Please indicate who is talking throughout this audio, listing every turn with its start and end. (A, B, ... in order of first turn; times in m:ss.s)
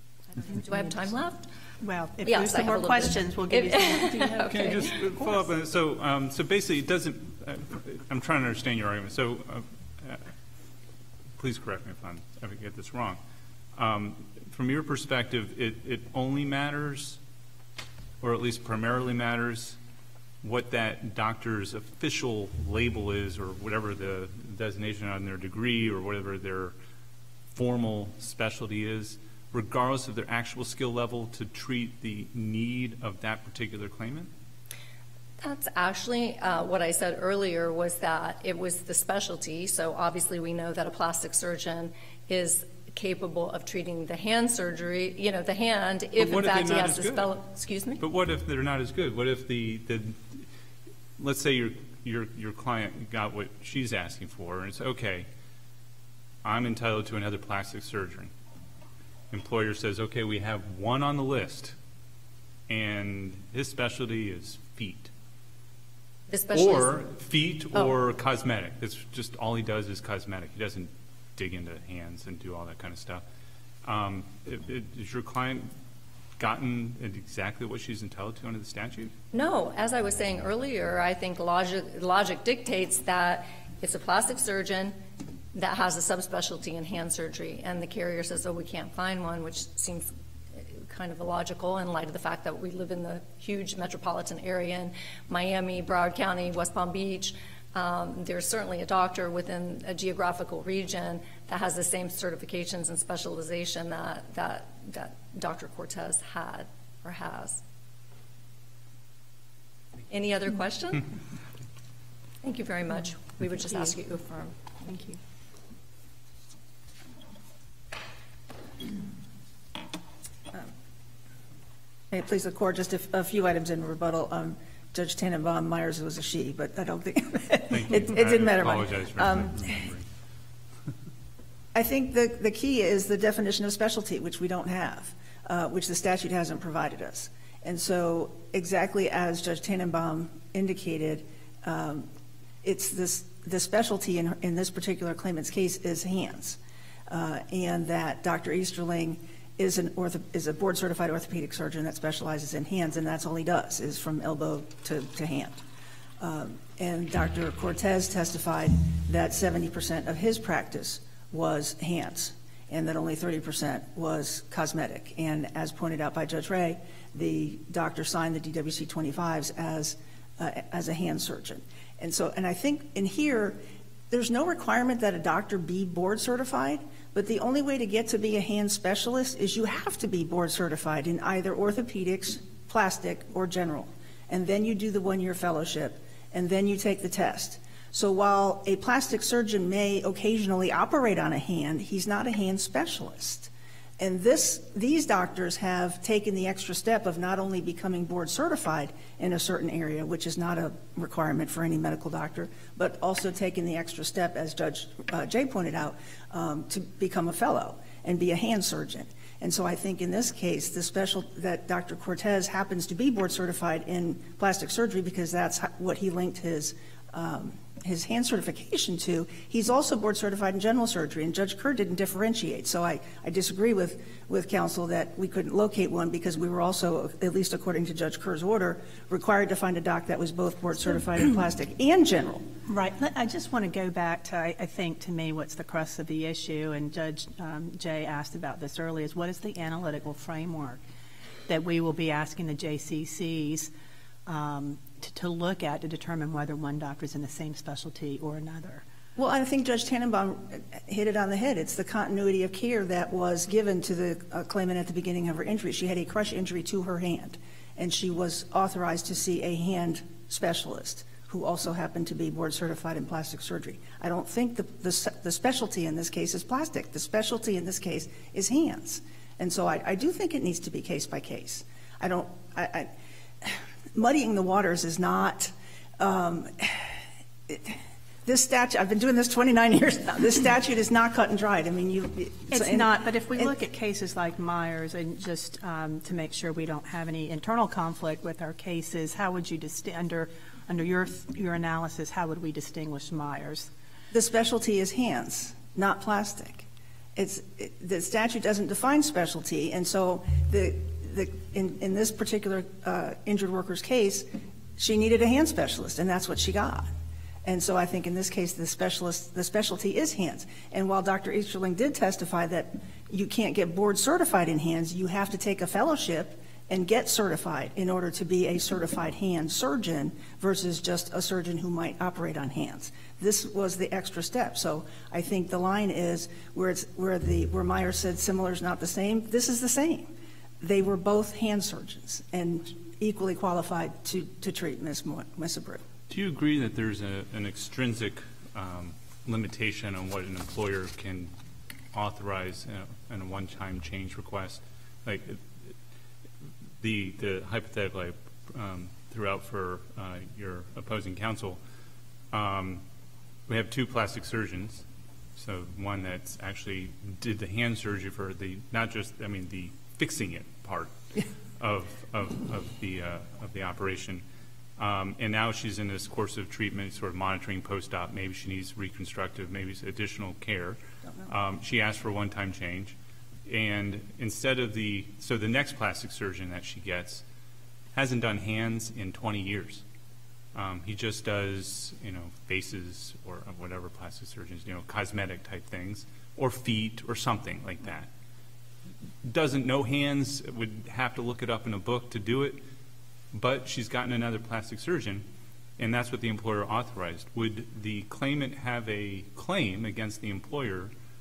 0:00.3-0:01.5 A
0:01.8-0:04.5 B
0:02.2-0:05.0 A
0:04.4-0:10.3 C
0:11.4-0:13.2 C
0:13.8-0:17.2 C
0:18.2-0:19.8 C
0:20.4-0:26.7 C
0:27.5-0:34.3 C
0:35.4-0:48.0 A
0:46.2-0:47.3 C
0:48.0-0:50.5 C
0:51.2-0:55.3 C
0:56.4-0:58.3 C
0:59.3-1:01.8 C
1:02.7-1:05.1 C
1:06.3-1:07.0 A
1:06.5-1:13.2 C
1:13.8-1:15.7 C
1:16.4-1:19.1 C
1:19.3-1:25.0 A
1:25.5-1:47.6 A
1:50.1-1:51.1 A
1:52.4-1:55.1 A
2:02.1-2:09.9 D
2:07.7-2:10.1 C
2:11.7-2:22.1 D
2:22.6-2:35.6 D
2:36.2-3:52.5 D
3:52.7-4:00.8 B
4:01.5-4:03.7 B
4:04.3-4:08.8 B
4:09.2-4:43.5 D
4:42.5-4:53.7 B
4:54.1-5:04.3 D
5:04.8-5:06.9 D
5:07.4-5:35.8 D
5:36.1-5:41.3 C
5:41.9-5:45.8 C
5:46.8-5:51.6 C
5:52.3-5:52.8 C
5:53.5-5:54.8 C
5:55.4-6:04.2 C
6:04.8-6:17.2 C
6:11.0-6:11.3 D
6:17.9-6:19.8 C
6:20.5-6:28.1 C
6:29.2-6:32.6 C
6:33.3-6:35.2 C
6:35.8-6:40.9 C